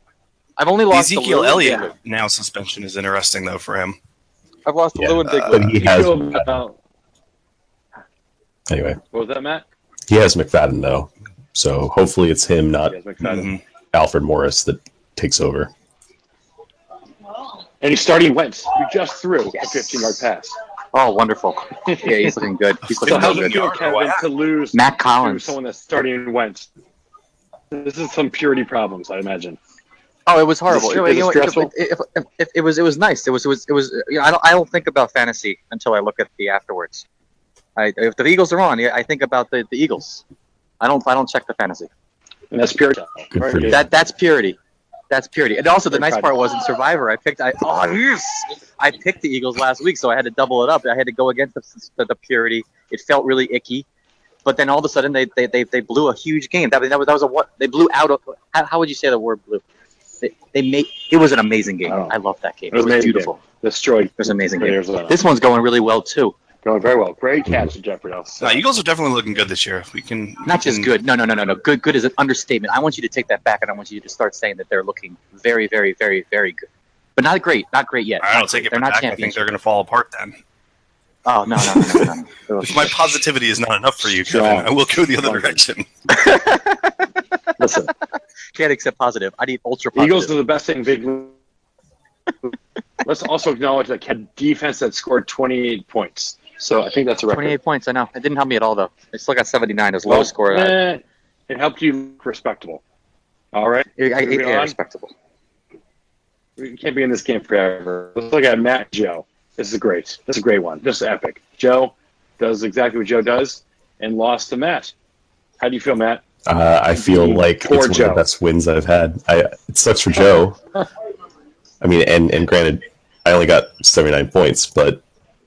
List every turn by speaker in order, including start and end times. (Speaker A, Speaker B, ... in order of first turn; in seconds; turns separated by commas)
Speaker A: 0.6-1.9, Speaker B: 0.9-4.0, Speaker A: 4.7-5.8, Speaker C: 4.9-6.5, Speaker B: 5.2-5.6, Speaker D: 5.7-6.7, Speaker C: 8.7-9.0, Speaker D: 9.1-9.6, Speaker C: 10.1-15.7, Speaker D: 12.9-13.5, Speaker B: 13.2-13.6, Speaker D: 17.8-20.5, Speaker A: 20.9-23.7, Speaker B: 22.8-24.2, Speaker D: 23.0-26.7, Speaker A: 24.7-25.5, Speaker D: 27.7-29.6, Speaker A: 30.3-37.0, Speaker D: 30.7-31.7, Speaker A: 37.8-40.2, Speaker A: 40.8-41.9, Speaker D: 42.5-43.8, Speaker C: 43.3-43.8, Speaker A: 43.7-44.6, Speaker A: 45.1-53.9, Speaker D: 45.9-46.3, Speaker A: 54.4-59.6, Speaker A: 60.2-63.3, Speaker D: 61.9-62.1, Speaker D: 62.7-65.2, Speaker A: 64.2-66.3, Speaker D: 66.6-68.6, Speaker B: 68.4-70.9, Speaker A: 70.5-79.4, Speaker B: 78.2-80.3, Speaker A: 81.2-82.4, Speaker D: 82.5-82.9, Speaker B: 82.6-85.9, Speaker D: 84.2-85.6, Speaker A: 86.1-86.9, Speaker D: 87.6-87.9, Speaker A: 88.5-90.3, Speaker D: 89.9-91.3, Speaker D: 93.0-97.5, Speaker A: 97.3-100.8, Speaker D: 100.1-102.8, Speaker D: 103.5-104.8, Speaker A: 104.0-105.1, Speaker D: 106.6-114.9, Speaker D: 115.6-116.2, Speaker C: 116.5-120.6, Speaker D: 116.9-118.2, Speaker C: 121.8-125.0